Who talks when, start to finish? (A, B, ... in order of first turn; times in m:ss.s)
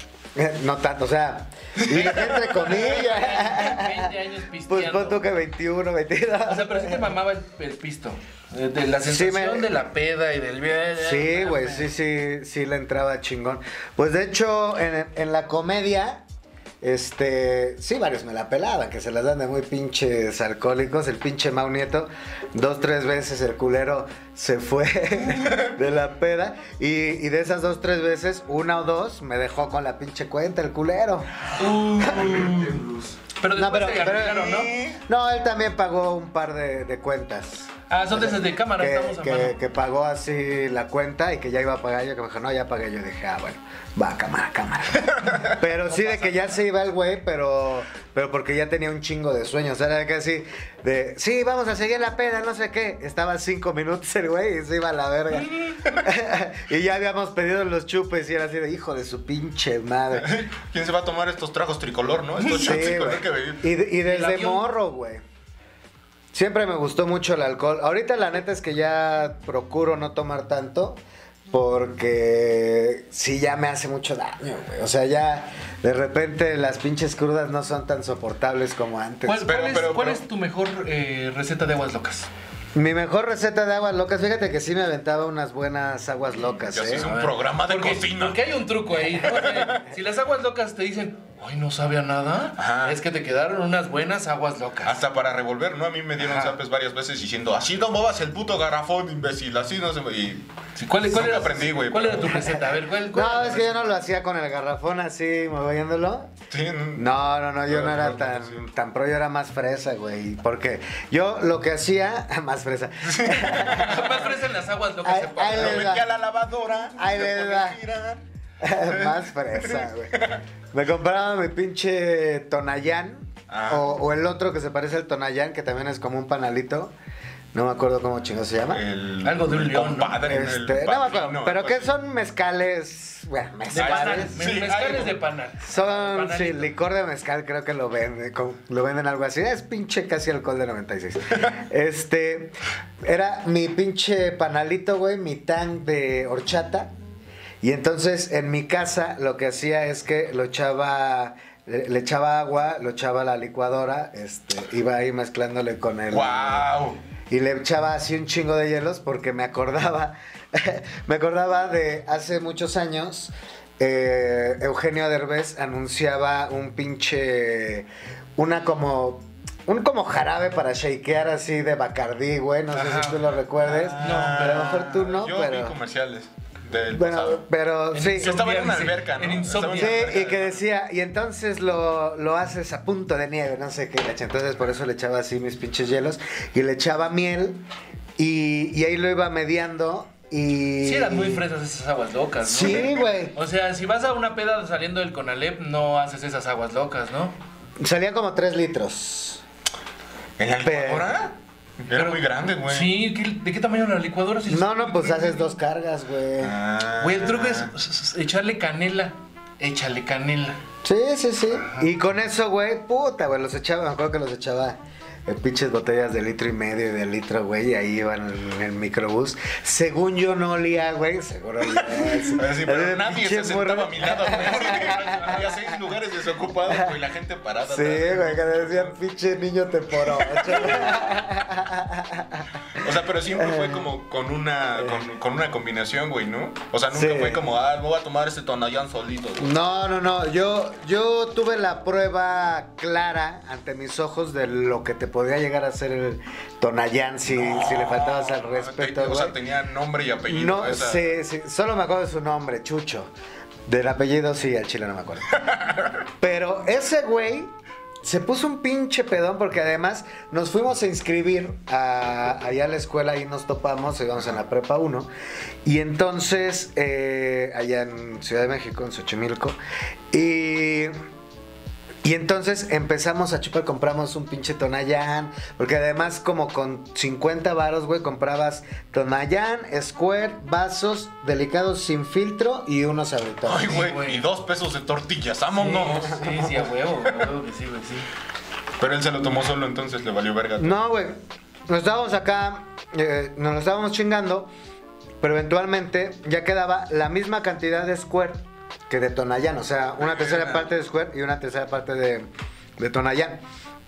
0:00.4-0:04.1 A
0:01.8-0:05.3 B
0:04.7-0:07.1 A
0:06.4-0:11.9 B
0:09.0-0:09.7 A
0:11.0-0:16.2 A
0:16.8-0:32.5 A
0:31.6-0:34.8 B
0:33.5-1:00.4 A
0:37.9-0:39.6 B
0:45.9-0:46.6 B
1:00.1-1:03.7 C
1:02.4-1:02.9 B
1:02.5-1:05.2 A
1:04.0-1:04.7 B
1:06.3-1:11.0 A
1:11.5-1:19.5 A
1:19.2-1:22.3 B
1:19.4-1:20.2 C
1:22.7-1:27.1 A
1:26.6-1:28.5 C
1:27.0-1:35.0 B
1:29.1-1:29.8 C
1:32.6-1:33.0 C
1:34.8-1:40.5 C
1:36.2-1:36.6 B
1:40.8-1:44.0 B
1:41.0-1:42.4 C
1:43.1-1:46.3 A
1:46.5-1:47.1 C
1:46.9-1:54.3 A
1:47.6-1:48.6 C
1:53.0-1:54.2 C
1:53.7-1:56.0 B
1:55.0-1:56.1 A
1:55.5-1:58.2 C
1:56.9-1:57.8 A
1:58.6-2:06.9 A
1:58.8-1:59.2 C
1:59.7-2:00.4 C
2:03.5-2:03.9 C
2:07.5-2:08.8 A
2:08.7-2:11.9 C
2:09.2-2:10.2 B
2:10.2-2:14.4 A
2:13.7-2:16.7 B
2:13.7-2:15.2 C
2:15.6-2:26.9 A
2:27.6-2:36.7 A
2:36.1-2:37.0 C
2:37.3-2:55.8 A
2:52.7-2:53.3 B
2:53.7-2:57.4 C
2:53.9-2:54.7 B
2:56.9-2:58.3 A
2:57.9-3:00.3 B
2:58.1-3:00.6 C
2:59.7-3:07.6 A
3:08.2-3:11.4 A
3:10.8-3:17.4 B
3:12.4-3:13.4 A
3:17.8-3:19.4 A
3:20.4-3:23.0 C
3:20.6-3:21.1 A
3:21.9-3:25.6 B
3:24.5-3:26.6 A
3:26.4-3:27.7 C
3:27.0-3:30.6 B
3:30.8-3:45.2 A
3:31.5-3:31.9 B
3:42.0-3:49.0 C
3:44.2-3:45.5 B
3:47.6-3:52.5 A
3:50.1-3:51.1 C
3:52.7-3:59.5 C
3:53.3-3:53.9 A
3:56.9-3:57.4 A
3:59.4-4:09.4 A
4:07.3-4:11.1 C
4:10.2-4:13.1 A
4:13.6-4:15.5 A
4:15.4-4:15.9 C
4:16.2-4:25.1 A
4:25.6-4:29.6 A
4:30.1-4:30.9 A
4:32.0-4:43.8 A
4:43.4-4:46.3 C
4:43.6-4:44.2 B
4:45.6-4:48.1 B
4:46.0-4:46.6 A
4:48.8-4:50.8 C
4:50.6-4:54.5 A
4:55.2-5:03.4 A
5:00.0-5:00.6 C